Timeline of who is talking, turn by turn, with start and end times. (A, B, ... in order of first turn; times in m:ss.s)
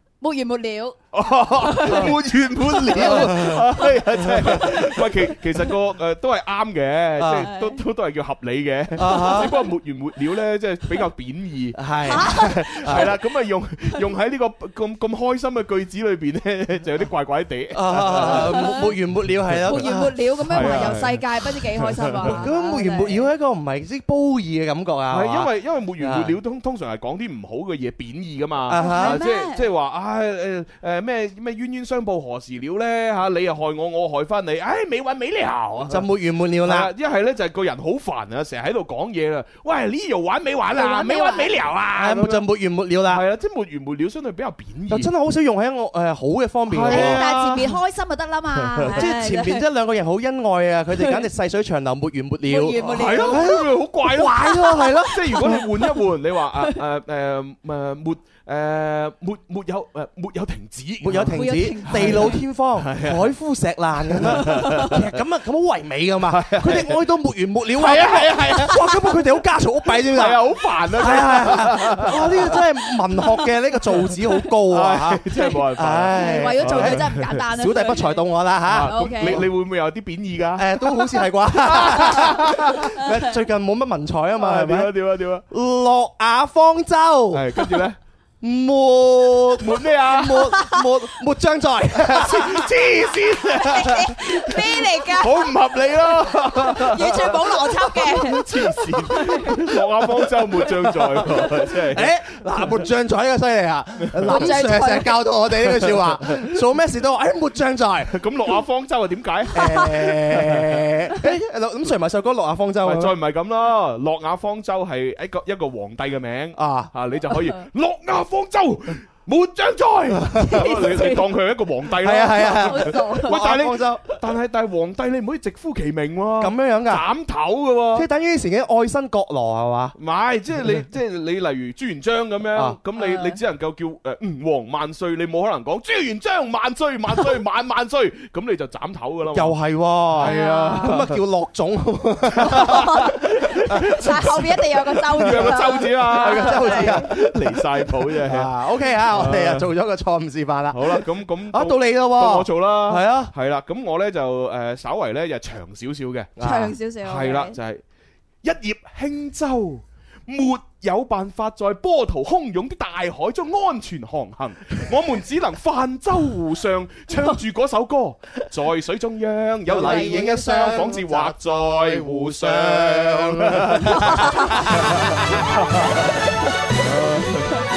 0:00.2-0:01.0 A
0:01.1-0:18.8 B
0:01.5-0:05.0 A
0:03.0-0:03.6 C
0:07.2-0:07.5 C
0:07.4-0:07.8 A
0:09.0-0:09.5 C
0:09.1-0:09.5 A
0:11.8-0:13.1 C
0:12.1-0:13.0 A
0:17.7-0:21.0 C
0:18.2-0:18.9 A
0:19.5-0:19.8 B
0:19.6-0:23.2 A
0:20.5-0:22.5 B
0:22.2-0:26.4 C
0:25.1-0:36.1 B
0:28.7-0:29.3 C
0:28.7-0:29.6 A
0:35.9-0:36.9 C
0:36.6-0:42.5 B
0:40.7-0:41.5 A
0:42.0-0:43.2 C
0:43.0-0:45.1 B
0:44.9-0:47.6 C
0:46.7-0:47.8 B
0:46.9-0:49.6 A
0:48.5-0:49.1 B
0:48.8-0:55.6 C
0:50.9-0:51.3 A
0:52.5-0:53.6 A
0:52.8-1:03.3 B
0:55.3-0:55.9 A
1:01.0-1:10.4 C
1:01.3-1:02.4 A
1:04.0-1:05.0 B
1:04.4-1:04.9 A
1:06.3-1:07.0 B
1:07.7-1:08.9 B
1:09.9-1:12.6 B
1:11.0-1:15.2 C
1:14.7-1:17.4 B
1:15.8-1:19.5 C
1:16.1-1:18.2 A
1:18.7-1:22.9 B
1:18.8-1:19.5 A
1:20.6-1:24.9 C
1:24.4-1:25.4 B
1:25.5-1:27.8 C
1:27.3-1:28.0 B
1:28.4-1:32.8 C
1:29.6-1:30.5 B
1:32.1-1:42.8 B
1:33.5-1:33.9 C
1:33.5-1:35.5 A
1:36.6-1:39.7 A
1:40.7-1:48.2 C
1:44.0-1:44.6 B
1:44.2-1:45.2 A
1:45.6-1:46.5 B
1:48.1-1:50.9 B
1:49.5-1:53.1 C
1:52.8-2:08.1 B
1:56.6-1:56.9 C
2:00.4-2:00.6 C
2:00.4-2:01.2 A
2:02.0-2:04.0 C
2:02.5-2:03.4 A
2:06.4-2:07.0 C
2:07.9-2:09.9 C
2:10.0-2:19.6 B
2:13.0-2:13.4 A
2:19.3-2:23.1 C
2:20.1-2:21.2 B
2:20.2-2:21.0 A
2:22.3-2:28.5 B
2:22.5-2:23.2 A
2:23.9-2:27.1 A
2:24.0-2:24.3 C
2:25.1-2:33.3 C
2:29.1-2:29.7 B
2:30.7-2:36.3 B
2:36.4-2:36.8 C
2:36.4-2:37.6 A
2:37.0-2:37.8 B
2:38.4-2:56.1 B
2:49.7-2:55.4 C
2:49.8-2:50.7 A
2:53.9-2:54.7 A
2:56.8-2:57.5 B